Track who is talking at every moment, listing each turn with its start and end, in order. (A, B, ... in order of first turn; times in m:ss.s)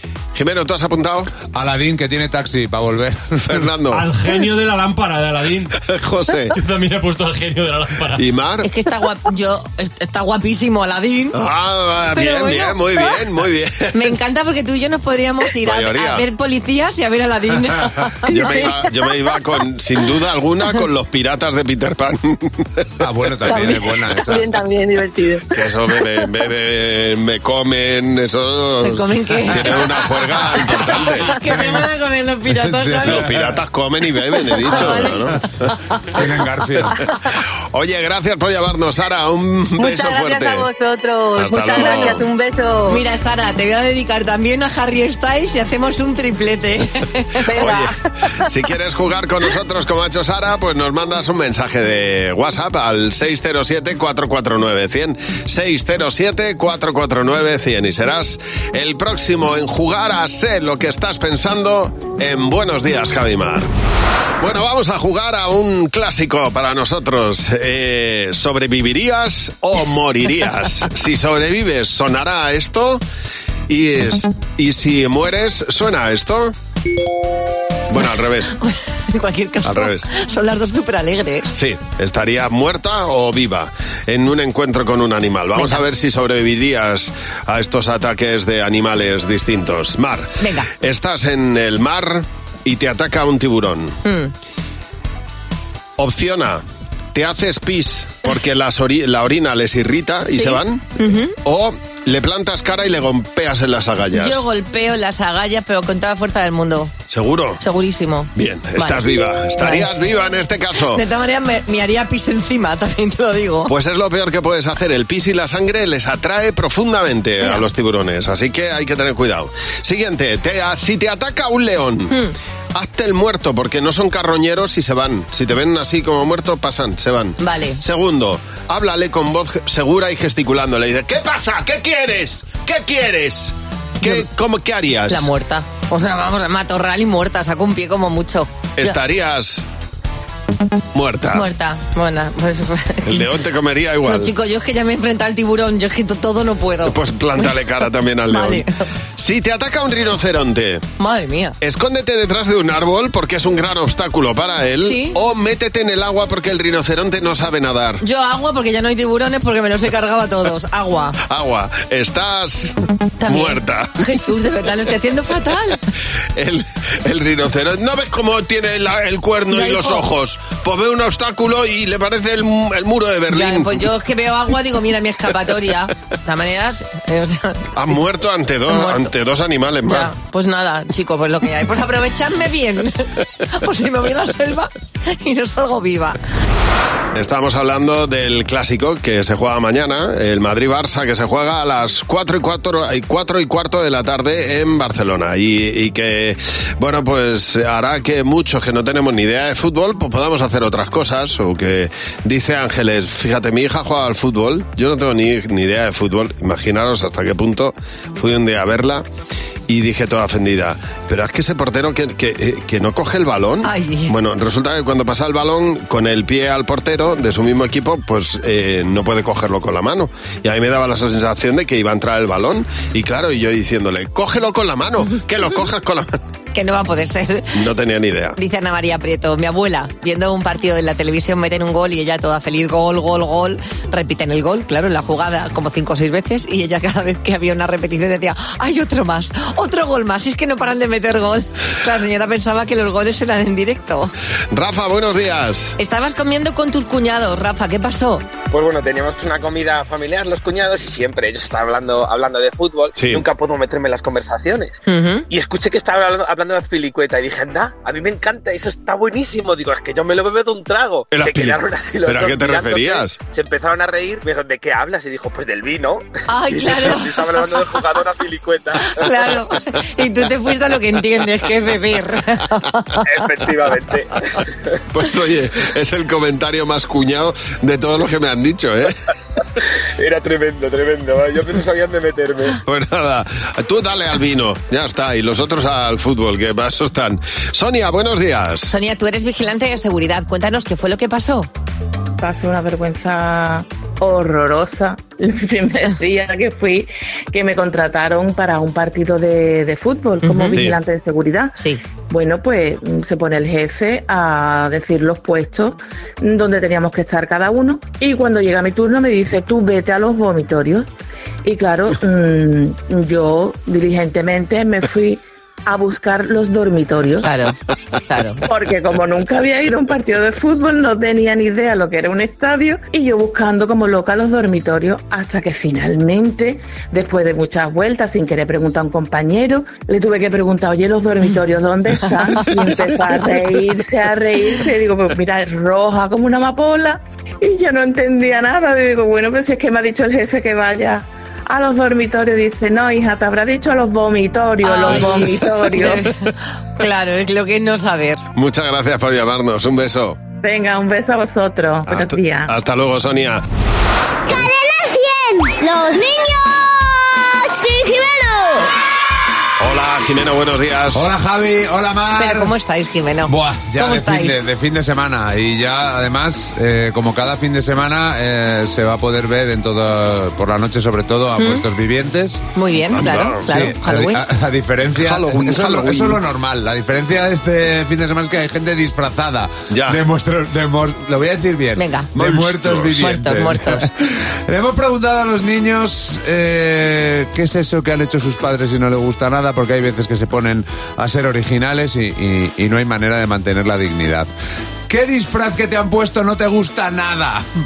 0:00.4-0:01.3 A
0:01.5-0:03.5 B
0:03.5-0:04.1 A
0:03.9-0:05.8 C
0:05.9-0:06.6 A
0:06.5-0:08.2 C
0:08.2-0:08.7 A
0:08.6-0:11.4 D
0:11.4-0:13.9 A
0:12.1-0:13.1 D
0:13.9-0:18.7 D
0:15.6-0:16.2 A
0:18.3-0:22.7 A
0:18.4-0:18.7 E
0:23.0-0:24.5 B
0:23.4-0:25.6 E
0:25.5-0:31.3 A
0:28.8-0:30.0 D
0:30.5-0:33.3 D
0:32.6-0:33.2 B
0:33.1-0:35.4 A
0:34.6-0:35.2 D
0:36.2-0:36.9 B
0:37.7-0:40.7 A
0:39.8-0:43.0 E
0:41.4-0:42.3 A
0:41.8-0:42.2 D
0:42.9-0:47.7 D
0:47.5-0:48.0 E
0:47.5-0:47.9 A
0:48.5-1:03.7 A
1:04.4-1:13.0 A
1:13.7-1:16.5 A
1:17.9-1:18.6 A
1:18.6-1:21.5 D
1:19.6-1:20.1 A
1:21.5-1:34.0 A
1:25.6-1:25.8 D
1:30.4-1:30.7 D
1:34.0-1:34.3 D
1:36.0-1:36.6 A
1:37.1-1:40.8 A
1:40.3-1:41.4 D
1:41.4-1:44.4 A
1:44.2-1:46.9 D
1:47.1-1:47.6 A
1:47.6-1:49.0 D
1:48.4-1:51.0 A
1:49.6-1:49.9 D
1:50.9-1:53.7 D
1:53.7-2:02.2 A
2:02.7-2:15.3 A
2:07.4-2:07.8 D
2:15.1-2:19.0 D
2:18.8-2:19.6 A
2:20.9-2:21.5 A
2:21.3-2:23.3 D
2:23.1-2:24.3 A
2:24.0-2:27.6 D
2:26.8-2:28.6 A
2:28.3-2:28.8 D
2:29.2-2:30.8 A
2:31.0-2:31.6 D
2:31.6-2:38.0 A
2:34.8-2:35.2 D
2:38.0-2:41.2 D
2:41.2-2:44.0 A
2:43.2-2:45.8 D
2:46.4-2:53.8 A
2:49.5-2:50.0 D
2:53.3-2:57.7 D
2:57.8-3:00.1 A
2:58.7-2:59.1 D
2:59.9-3:06.2 D
3:07.2-3:29.0 A
3:29.7-3:46.2 A
3:33.6-3:34.1 D
3:46.5-3:47.5 D
3:47.5-3:48.4 A
3:48.4-4:04.1 D
4:04.5-4:05.8 A
4:05.8-4:08.3 D
4:08.5-4:29.1 F
4:13.0-4:13.2 A
4:14.9-4:15.3 D
4:21.1-4:23.2 A
4:26.3-4:27.8 D
4:28.8-4:33.0 D
4:33.0-4:34.2 F
4:34.9-4:39.0 A
4:40.0-4:42.6 F
4:42.6-4:48.7 A
4:48.7-4:51.5 D
4:52.2-5:01.6 G
5:00.2-5:00.6 D
5:02.1-5:10.9 G
5:11.4-5:17.3 G
5:17.2-5:17.6 D
5:18.1-5:18.4 D
5:18.5-5:46.1 G
5:32.4-5:33.3 D
5:44.6-5:48.2 D
5:48.4-5:50.2 A
5:50.4-5:52.5 G
5:51.9-5:53.4 A
5:54.3-5:58.7 H
5:59.6-6:01.1 A
6:00.9-6:02.5 B
6:02.2-6:04.4 D
6:03.3-6:12.4 B
6:11.4-6:11.6 D
6:12.6-6:14.2 D
6:12.9-6:13.6 A
6:13.4-6:34.3 B
6:15.0-6:16.2 A
6:19.7-6:20.0 A
6:21.8-6:22.1 D
6:22.2-6:23.1 A
6:23.0-6:23.9 D
6:34.9-6:37.4 B